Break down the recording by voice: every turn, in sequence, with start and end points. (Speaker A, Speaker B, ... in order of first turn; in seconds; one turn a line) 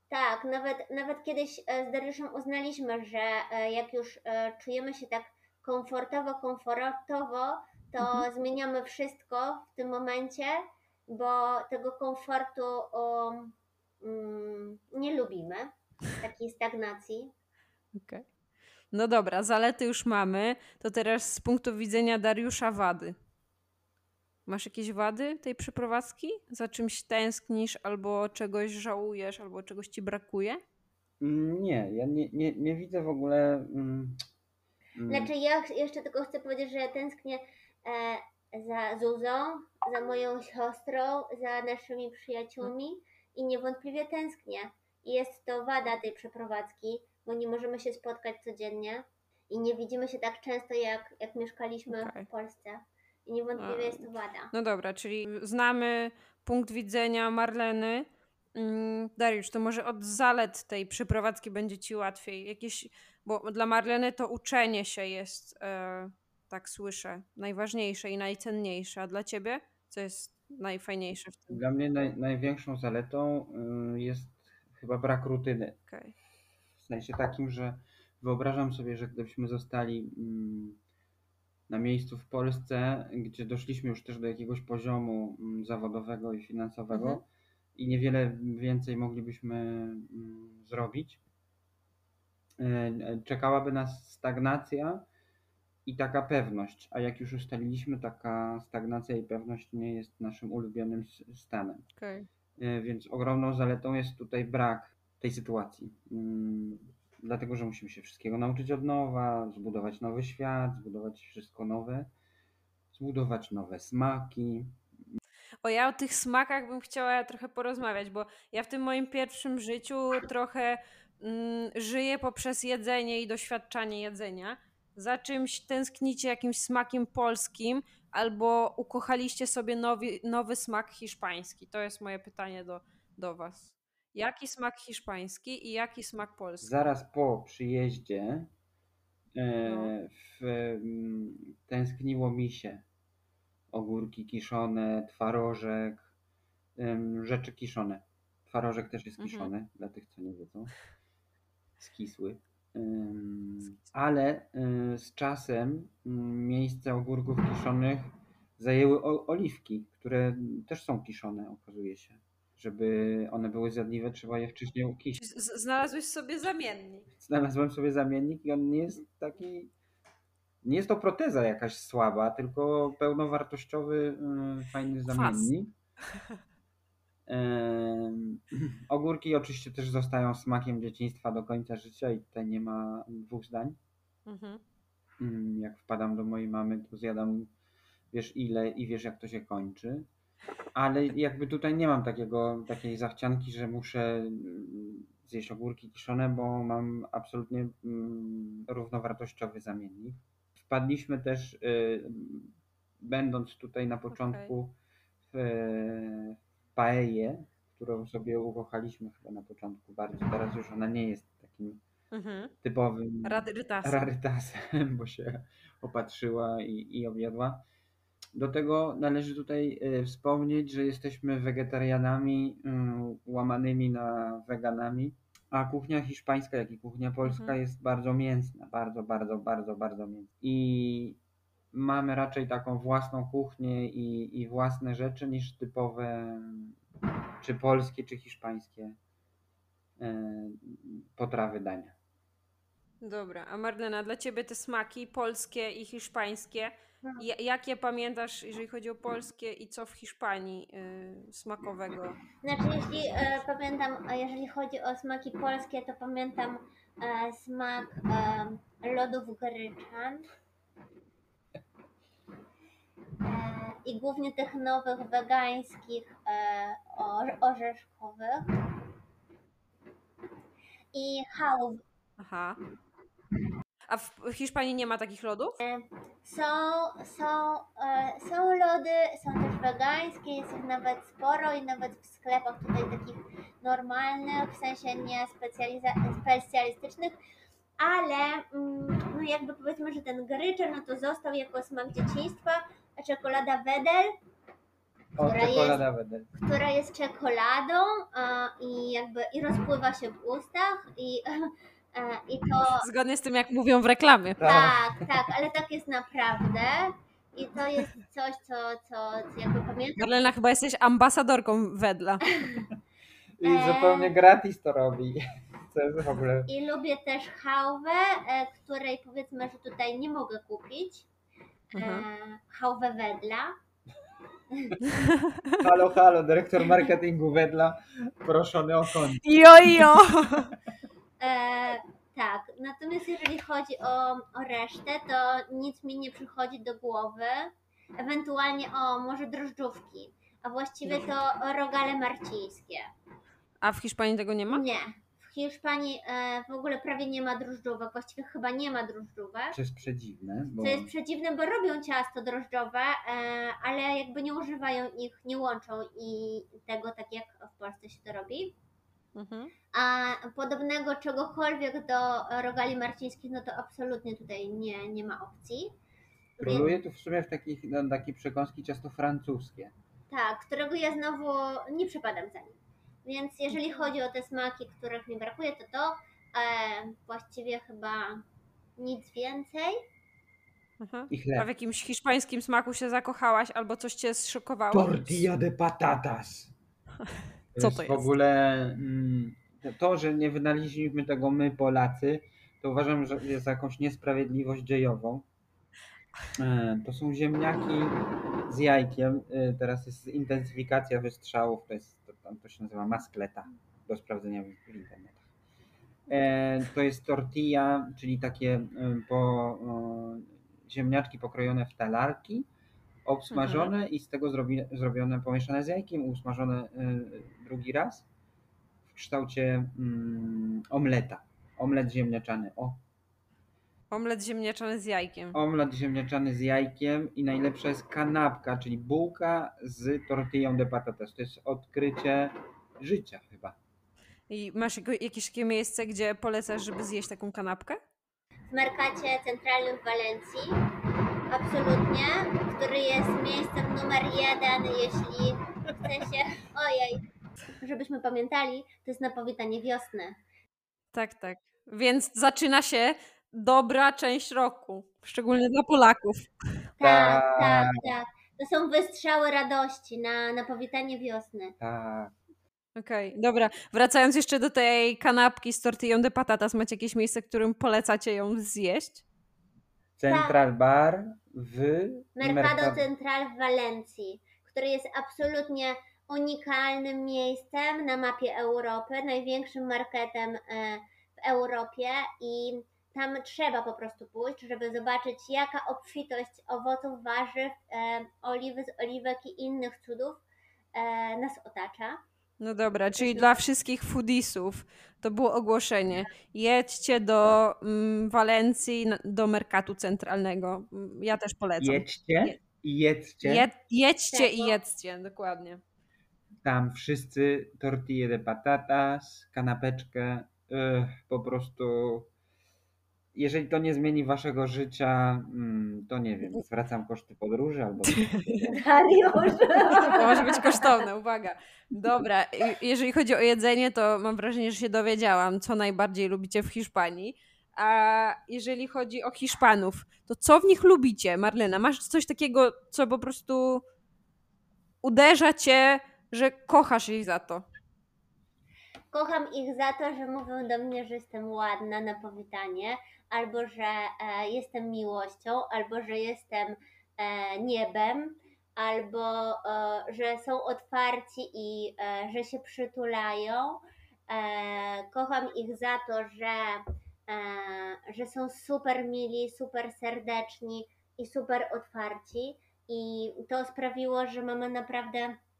Speaker A: 0.1-17.3
Speaker B: 17.9-18.2
Speaker B: 18.9-23.1
Speaker B: 24.5-30.6
Speaker C: 31.2-34.2
Speaker C: 34.9-35.3
Speaker A: 35.1-54.5
Speaker B: 51.9-52.3
Speaker B: 53.6-71.6
Speaker C: 71.5-75.8
Speaker B: 75.9-76.1
Speaker C: 76.8-80.8
Speaker C: 81.7-87.2
Speaker B: 86.9-87.2
Speaker C: 87.8-91.2
Speaker C: 92.6-95.0
Speaker C: 95.8-101.8
Speaker B: 102.0-102.3
Speaker C: 102.6-112.1
Speaker C: 112.9-114.8
Speaker B: 115.6-136.7
Speaker C: 136.6-138.5
Speaker C: 139.3-142.8
Speaker B: 139.6-139.9
Speaker C: 143.7-146.1
Speaker C: 146.8-150.7
Speaker B: 149.2-149.5
Speaker C: 151.8-165.2
Speaker B: 165.2-167.1
Speaker C: 167.2-169.7
Speaker C: 170.6-175.7
Speaker B: 175.1-175.5
Speaker C: 177.3-183.8
Speaker B: 184.2-184.6
Speaker C: 185.2-187.5
Speaker C: 188.1-190.1
Speaker C: 190.7-204.8
Speaker B: 204.1-204.5
Speaker C: 205.3-211.8
Speaker B: 212.1-212.5
Speaker C: 212.6-217.6
Speaker B: 213.2-214.1
Speaker C: 218.3-231.2
Speaker B: 227.2-227.6
Speaker C: 231.7-236.8
Speaker C: 237.4-239.0
Speaker C: 240.0-241.9
Speaker B: 243.0-252.2
Speaker A: 252.4-260.3
Speaker B: 253.0-253.4
Speaker A: 263.2-268.6
Speaker A: 270.9-271.8
Speaker B: 272.2-272.6
Speaker B: 273.9-275.6
Speaker A: 275.6-287.2
Speaker A: 287.8-294.1
Speaker C: 295.2-296.3
Speaker A: 295.2-295.8
Speaker A: 296.3-302.9
Speaker B: 302.8-304.5
Speaker C: 304.4-305.3
Speaker A: 304.4-310.3
Speaker B: 310.0-312.2
Speaker A: 312.4-312.6
Speaker C: 313.4-316.5
Speaker A: 313.4-314.1
Speaker A: 316.5-321.1
Speaker B: 321.7-322.1
Speaker A: 321.8-323.5
Speaker A: 324.5-324.8
Speaker B: 324.8-325.6
Speaker C: 325.6-329.3
Speaker B: 329.2-330.5
Speaker A: 331.2-342.9
Speaker B: 340.9-341.1
Speaker B: 343.6-344.6
Speaker A: 344.5-349.6
Speaker C: 349.5-350.9
Speaker A: 350.6-358.6
Speaker B: 359.1-359.5
Speaker A: 359.7-365.7
Speaker A: 366.4-366.7
Speaker C: 366.4-369.7
Speaker A: 370.1-378.2
Speaker B: 373.6-373.9
Speaker A: 378.8-379.8
Speaker B: 380.8-385.3
Speaker C: 381.1-381.5
Speaker C: 384.7-386.5
Speaker C: 387.5-395.2
Speaker B: 387.6-388.1
Speaker C: 396.4-405.3
Speaker C: 406.1-412.5
Speaker C: 413.1-418.1
Speaker B: 413.3-413.7
Speaker C: 418.9-422.8
Speaker B: 423.9-425.4
Speaker C: 425.3-433.6
Speaker B: 434.3-437.8
Speaker A: 438.5-440.6
Speaker A: 441.3-447.0
Speaker A: 447.6-450.2
Speaker B: 450.9-456.3
Speaker A: 456.8-461.5
Speaker C: 456.8-457.7
Speaker C: 461.6-462.1
Speaker B: 462.8-469.0
Speaker C: 470.0-472.8
Speaker A: 470.1-470.3
Speaker A: 472.2-492.0
Speaker B: 492.4-502.4
Speaker A: 493.0-493.4
Speaker C: 501.6-503.5
Speaker B: 503.2-505.6
Speaker A: 504.1-504.6
Speaker C: 506.4-512.1
Speaker C: 513.1-518.2
Speaker B: 518.0-518.5
Speaker A: 518.5-520.8
Speaker B: 519.8-533.6
Speaker B: 534.8-537.5
Speaker A: 538.9-565.2